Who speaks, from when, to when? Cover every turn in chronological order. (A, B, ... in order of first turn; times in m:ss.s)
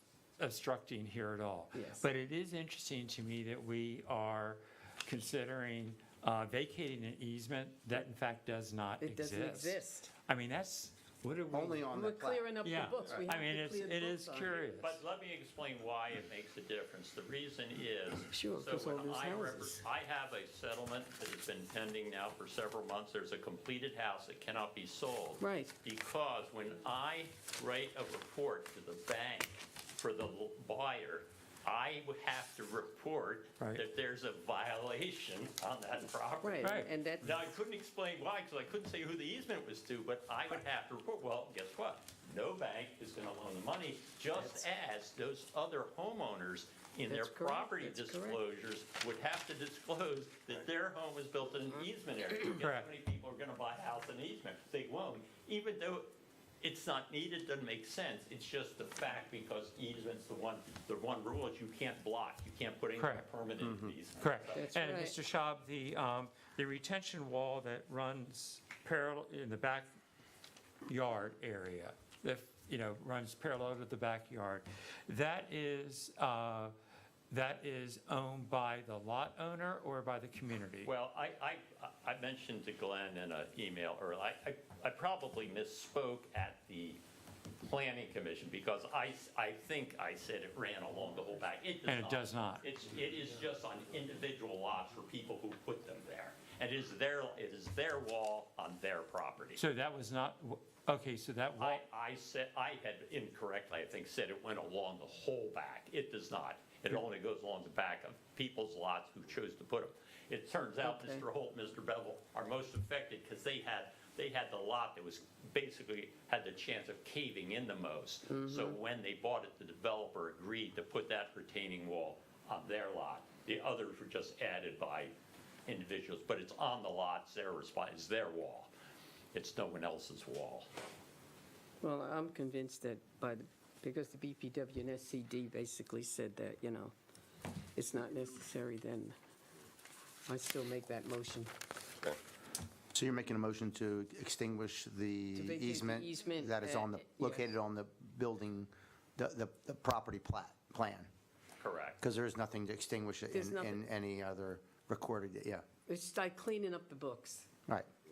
0:00.4-0:11.8 A
0:01.7-0:02.1 B
0:09.0-0:10.1 B
0:11.5-0:12.6 C
0:11.9-0:14.7 B
0:12.6-0:15.0 A
0:14.8-0:56.1 D
0:18.3-0:19.8 B
0:25.4-0:25.7 B
0:36.4-0:37.4 B
0:47.1-0:48.4 B
0:52.6-0:52.9 A
0:56.6-1:04.7 D
1:03.0-1:03.3 A
1:04.2-1:09.9 A
1:04.5-1:05.2 B
1:10.8-1:16.7 A
1:17.3-1:20.9 A
1:20.8-1:27.0 D
1:27.6-1:39.6 D
1:31.8-1:32.7 A
1:39.6-1:41.8 A
1:41.6-2:05.1 D
1:50.8-1:51.2 B
1:58.3-1:58.8 B
2:05.7-2:08.7 D
2:09.3-2:10.7 D
2:11.8-2:16.9 B
2:17.7-2:19.2 B
2:20.2-2:21.5 B
2:22.9-2:31.1 C
2:25.3-2:27.5 B
2:31.6-2:32.0 D
2:32.0-2:35.6 C
2:33.3-2:33.8 B
2:35.9-2:37.5 B